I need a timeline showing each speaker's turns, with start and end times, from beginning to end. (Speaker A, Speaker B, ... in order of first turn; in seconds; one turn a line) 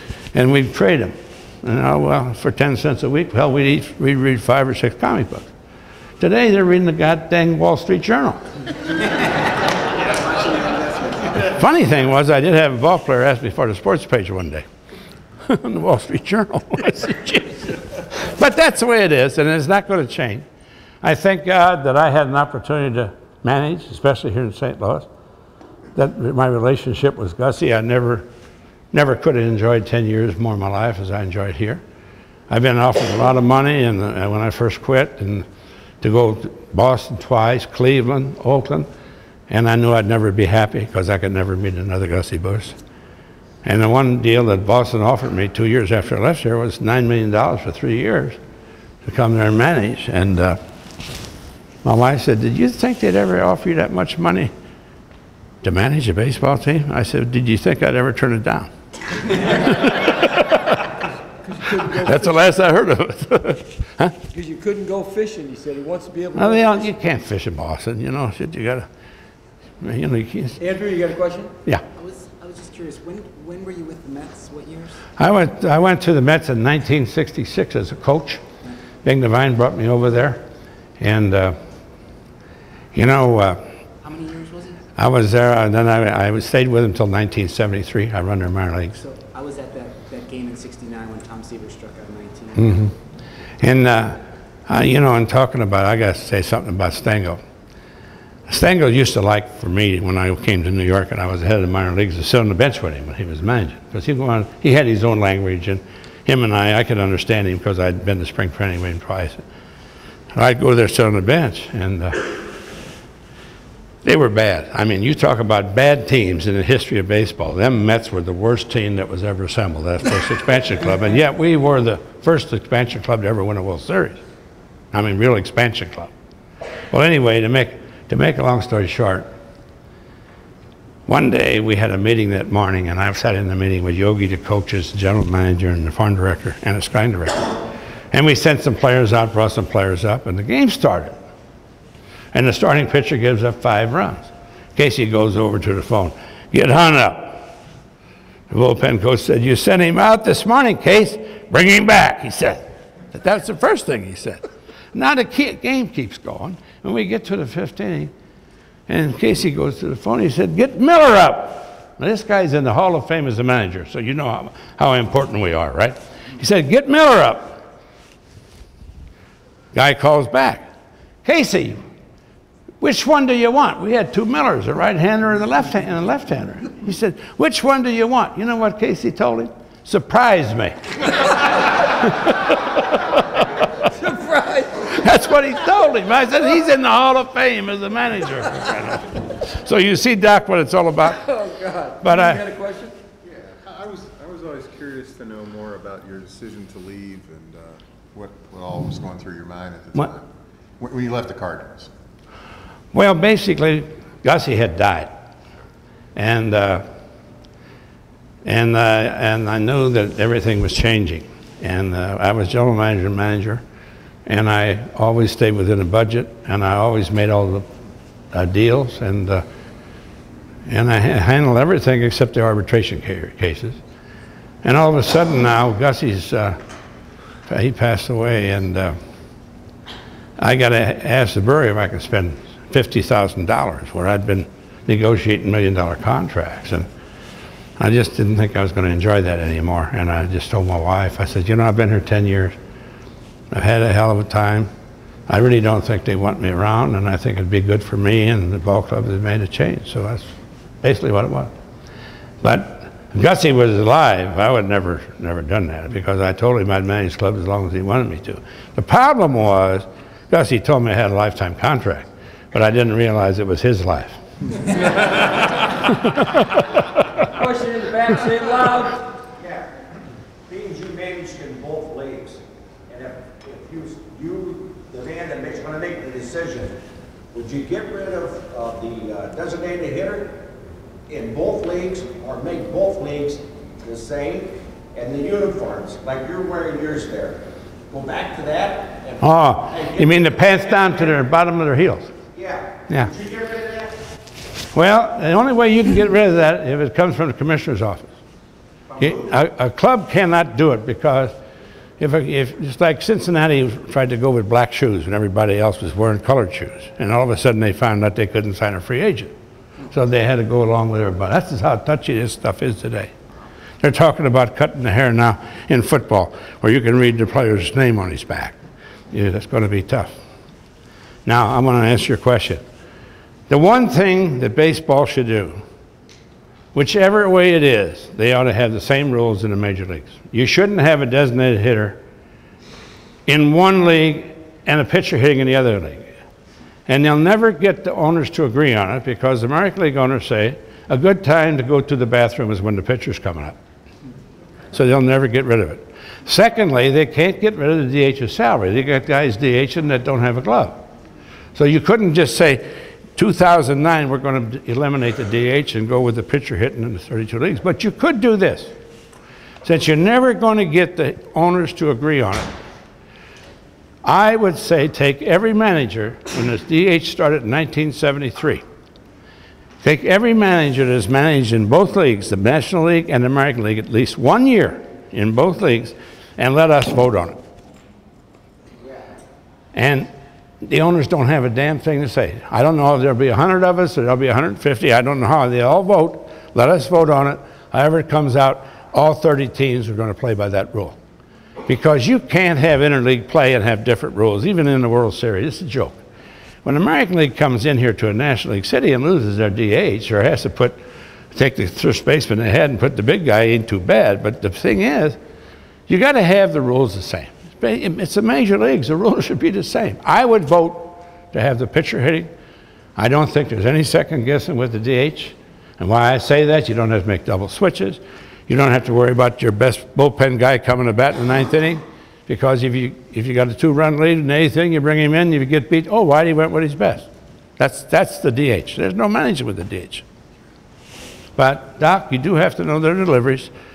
Speaker A: 0.3-5.5
Speaker A: 6.2-8.4
Speaker B: 10.4-11.2
Speaker A: 11.4-14.7
Speaker A: 15.4-20.4
Speaker A: 21.0-25.1
Speaker A: 25.9-28.3
Speaker A: 28.9-31.8
Speaker A: 32.5-35.5
Speaker A: 36.0-38.9
Speaker A: 39.5-42.8
Speaker A: 43.6-48.4
Speaker A: 49.0-50.6
Speaker A: 51.8-54.5
Speaker A: 55.6-58.7
Speaker A: 59.3-60.8
Speaker C: 61.4-62.4
Speaker A: 61.8-64.2
Speaker C: 64.3-66.9
Speaker A: 66.3-68.9
Speaker A: 69.8-70.6
Speaker C: 70.6-71.5
Speaker B: 71.9-75.0
Speaker A: 75.2-78.4
Speaker A: 79.0-80.5
Speaker A: 81.0-81.6
Speaker A: 82.9-83.6
Speaker B: 84.0-84.9
Speaker A: 85.0-89.0
Speaker B: 89.0-92.9
Speaker A: 92.5-92.9
Speaker A: 93.6-97.4
Speaker A: 98.5-109.4
Speaker A: 110.3-112.5
Speaker A: 114.0-124.2
Speaker A: 124.9-126.1
Speaker A: 126.9-129.3
Speaker A: 131.1-141.1
Speaker A: 142.3-147.4
Speaker A: 148.5-158.1
Speaker A: 158.9-167.6
Speaker A: 169.7-170.6
Speaker A: 171.2-171.8
Speaker A: 172.8-181.1
Speaker A: 181.8-183.2
Speaker C: 183.9-184.9
Speaker A: 184.9-191.2
Speaker C: 191.2-192.9
Speaker A: 192.0-192.4
Speaker D: 193.2-200.2
Speaker D: 200.8-201.9
Speaker A: 202.9-205.3
Speaker A: 206.1-206.8
Speaker A: 208.4-213.6
Speaker A: 214.2-217.7
Speaker A: 218.3-219.4
Speaker A: 220.7-223.8
Speaker A: 224.6-226.6
Speaker A: 227.5-228.9
Speaker A: 230.4-236.9
Speaker A: 237.8-242.6
Speaker A: 243.5-244.7
Speaker A: 245.3-251.5
Speaker A: 252.4-264.2
Speaker A: 265.8-266.6
Speaker C: 267.3-269.1
Speaker E: 269.4-269.7
Speaker E: 270.5-276.8
Speaker E: 277.3-280.4
Speaker E: 281.1-291.2
Speaker A: 289.2-292.1
Speaker E: 292.3-294.0
Speaker A: 294.7-298.1
Speaker E: 298.9-299.2
Speaker A: 299.0-301.3
Speaker A: 302.0-309.3
Speaker A: 309.9-313.1
Speaker A: 313.8-318.6
Speaker A: 319.1-320.1
Speaker A: 321.2-322.6
Speaker A: 323.5-325.6
Speaker A: 326.7-332.0
Speaker A: 333.2-336.1
Speaker A: 336.9-343.6
Speaker A: 344.7-350.9
Speaker A: 351.5-358.7
Speaker A: 359.6-362.5
Speaker A: 364.0-368.6
Speaker A: 369.8-377.4
Speaker A: 379.7-380.1
Speaker A: 380.6-391.0
Speaker A: 391.6-396.0
Speaker A: 396.6-400.8
Speaker A: 401.3-405.2
Speaker A: 405.9-412.3
Speaker A: 412.9-430.0
Speaker A: 431.4-433.5